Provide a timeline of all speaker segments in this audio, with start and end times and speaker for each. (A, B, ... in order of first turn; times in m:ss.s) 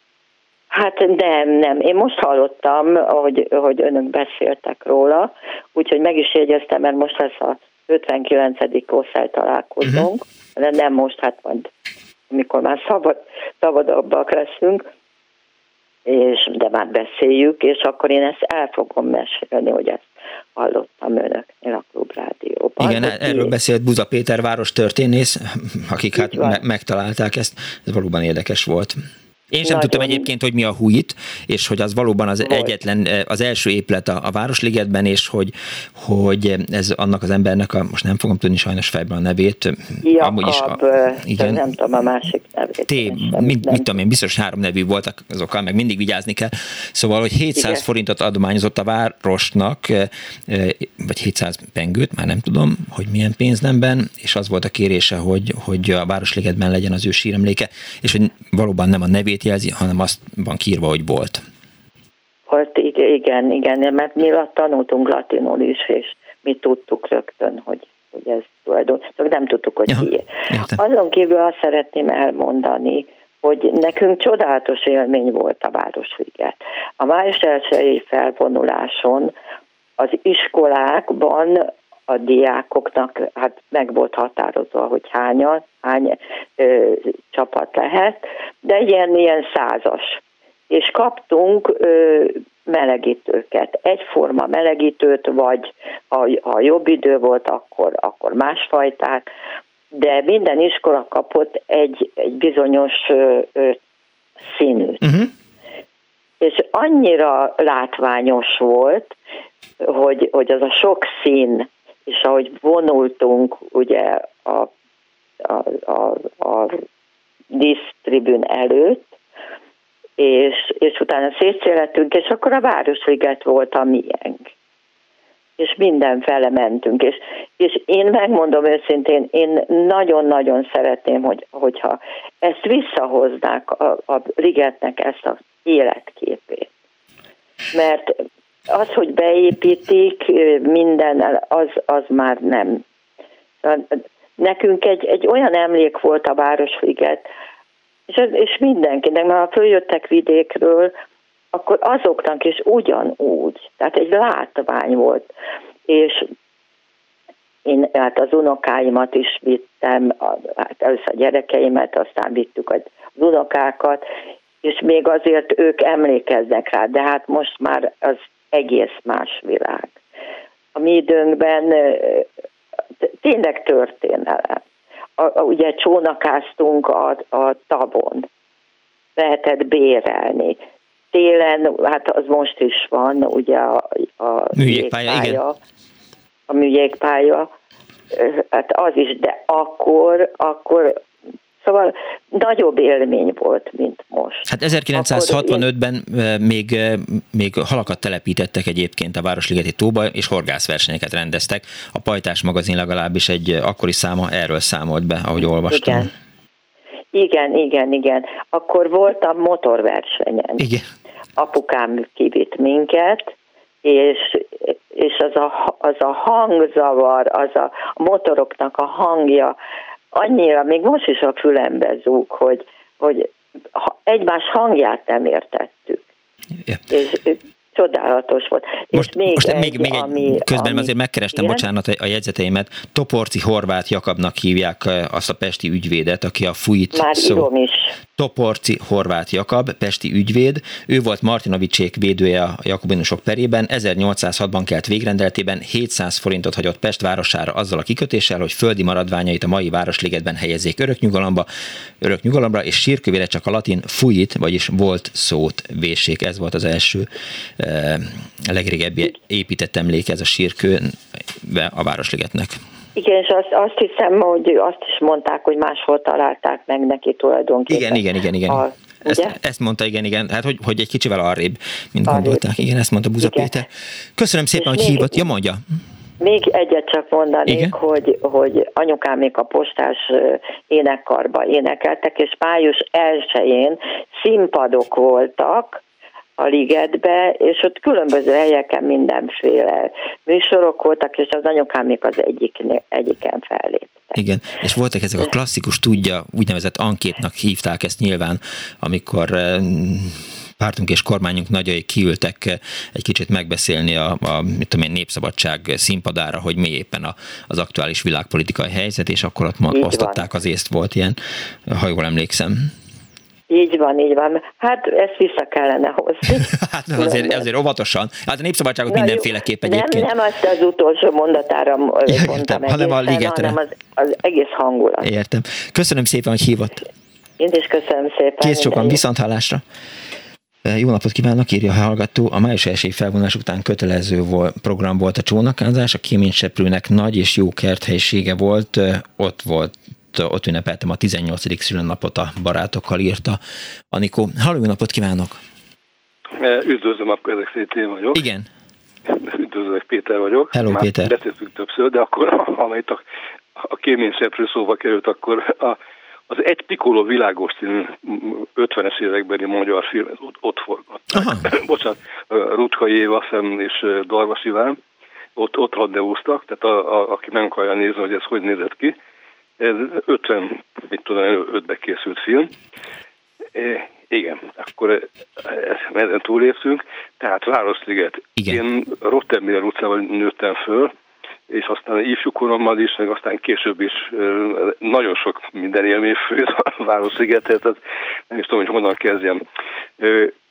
0:00.7-0:11.7 A
0:09.8-0:10.1 B
0:12.3-0:14.8 A
0:16.1-0:23.5 A
0:22.8-0:29.0 B
0:26.2-0:26.6 A
0:29.5-0:41.7 B
0:29.6-0:30.3 A
0:32.4-0:32.7 A
0:40.0-0:44.0 A
0:42.9-1:01.4 B
0:47.6-0:47.8 A
1:02.5-1:19.3 A
1:09.9-1:10.8 B
1:20.0-1:39.3 A
1:39.9-1:43.8 A
1:44.5-1:45.0 A
1:45.0-1:45.3 B
1:46.4-1:49.1 A
1:49.8-1:54.7 A
1:55.4-1:56.8 A
1:57.5-1:59.1 A
2:00.2-2:04.5 A
2:05.6-2:16.7 A
2:17.7-2:22.8 A
2:23.6-2:27.2 A
2:28.1-2:30.9 A
2:31.5-2:35.3 A
2:35.9-2:36.3 A
2:37.6-2:44.0 A
2:44.6-2:49.9 A
2:50.7-2:52.2 A
2:53.0-2:54.6 A
2:55.2-2:58.3 A
2:59.2-3:00.6 A
3:01.1-3:05.6 A
3:04.5-3:05.4 B
3:06.5-3:07.5 A
3:08.1-3:11.0 A
3:11.6-3:15.6 A
3:14.5-3:26.1 B
3:25.7-3:26.1 A
3:27.1-3:30.6 A
3:30.6-3:30.8 B
3:31.4-3:33.3 A
3:33.8-3:39.6 A
3:40.1-3:46.0 A
3:46.9-3:51.6 A
3:48.9-3:57.5 B
3:56.9-3:57.9 A
3:58.2-4:11.5 B
4:12.0-4:22.6 B
4:23.0-4:29.3 A
4:27.7-4:35.6 B
4:32.0-4:32.5 A
4:33.2-4:33.6 A
4:34.6-4:35.2 A
4:36.2-4:45.8 A
4:37.5-4:37.7 B
4:46.4-4:54.2 A
4:54.1-5:12.7 B
5:09.7-5:10.2 A
5:13.5-5:17.4 A
5:16.3-5:20.1 B
5:18.9-5:25.1 A
5:22.1-5:23.6 B
5:25.0-5:26.8 B
5:27.4-5:29.0 A
5:28.4-5:29.6 B
5:30.6-5:43.4 B
5:43.9-5:45.4 B
5:46.4-5:48.2 C
5:48.1-5:48.5 B
5:49.1-5:53.0 C
5:50.5-5:51.1 B
5:53.6-5:55.8 C
5:56.3-6:04.8 C
6:01.1-6:01.5 B
6:05.4-6:08.9 C
6:09.6-6:12.5 C
6:13.5-6:20.9 C
6:18.4-6:18.6 B
6:21.5-6:27.8 C
6:28.3-6:29.4 C
6:30.0-6:30.3 C